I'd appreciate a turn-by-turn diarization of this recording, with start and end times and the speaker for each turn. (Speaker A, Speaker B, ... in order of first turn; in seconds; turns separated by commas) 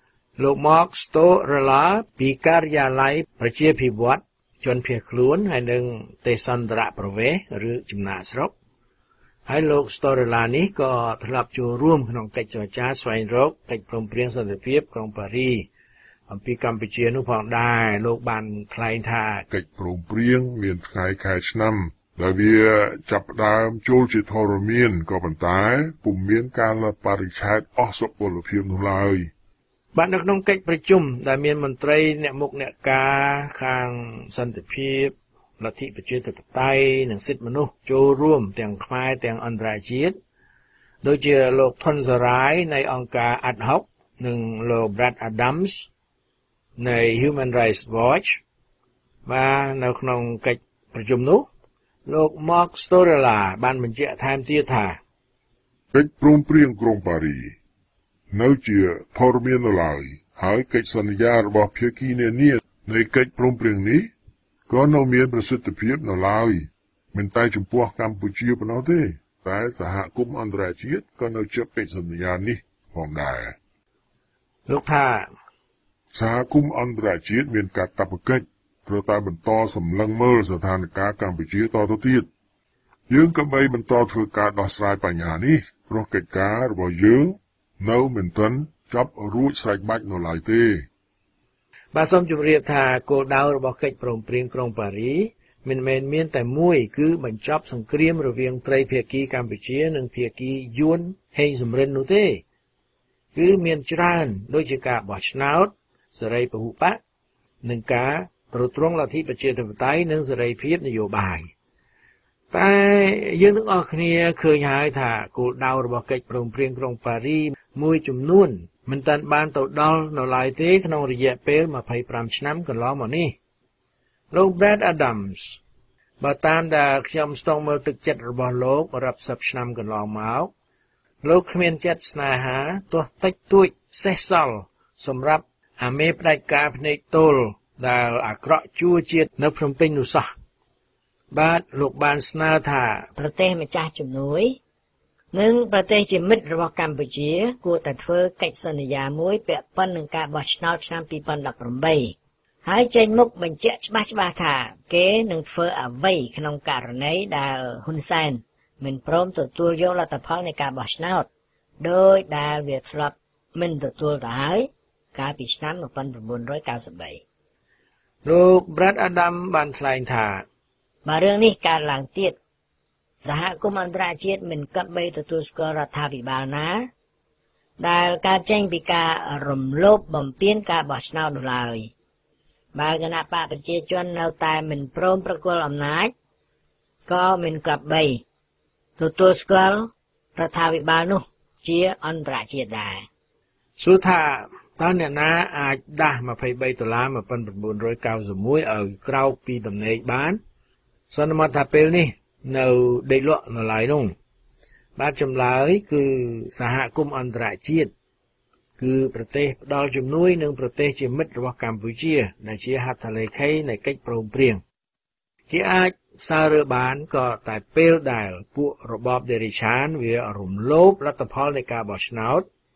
Speaker A: 0.4-8.5, Speaker A: 9.4-15.7, Speaker A: 16.3-19.4, Speaker B: 19.5-29.3, Speaker A: 29.9-40.1, Speaker A: 41.0-45.9, Speaker A: 46.8-48.4, Speaker A: 49.2-51.5, Speaker A: 52.0-55.0, Speaker B: 55.9-57.5, Speaker B: 58.3-64.1, Speaker B: 64.7-73.5, Speaker A: 74.7-75.3, Speaker B: 76.1-82.3, Speaker B: 83.1-90.9, Speaker A: 91.9-102.4, Speaker A: 103.3-107.0, Speaker A: 107.6-111.5, Speaker A: 112.5-123.3, Speaker A: 124.3-125.6, Speaker A: 126.2-130.5, Speaker A: 131.2-140.3, Speaker A: 141.3-143.1, Speaker C: 143.2-144.6, Speaker C: 145.3-161.3, Speaker C: 161.8-167.2, Speaker A: 168.2-170.4, Speaker C: 171.0-172.3, Speaker C: 173.2-176.9, Speaker C: 177.8-181.9, Speaker C: 182.7-186.1, Speaker C: 187.1-188.2, Speaker C: 189.0-193.1, Speaker A: 193.8-200.4, Speaker A: 201.1-204.1, Speaker A: 204.9-207.9, Speaker A: 208.8-214.6, Speaker A: 215.5-222.5